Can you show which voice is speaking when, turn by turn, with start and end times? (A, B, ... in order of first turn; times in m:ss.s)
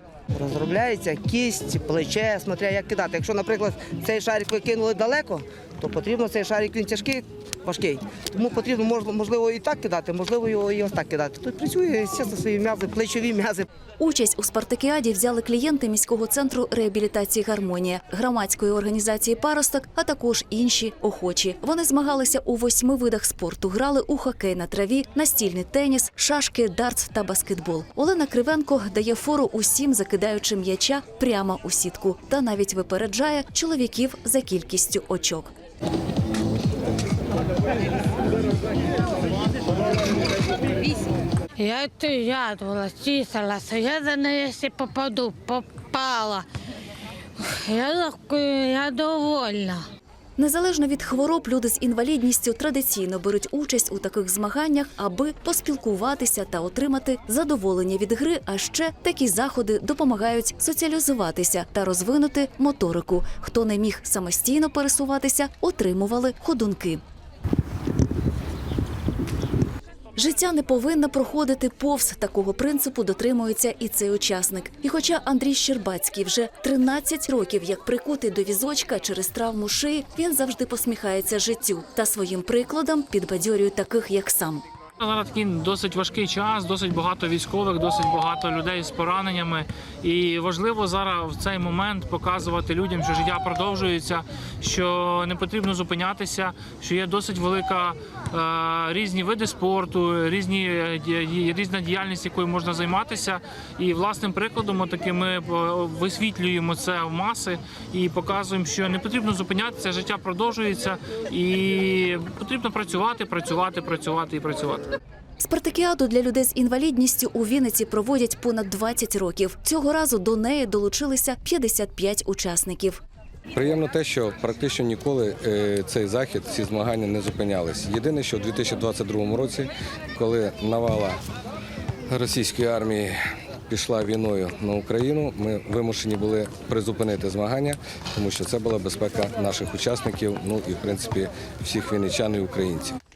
0:00.3-0:13.7 A
0:14.0-0:35.5 B
0:41.6-0:46.4 C
0:47.4-0:49.8 C
0:50.4-1:07.0 B
1:10.2-1:24.6 B
1:25.0-1:54.9 D
1:55.4-2:03.0 B
2:03.5-2:11.2 E
2:12.1-2:23.0 E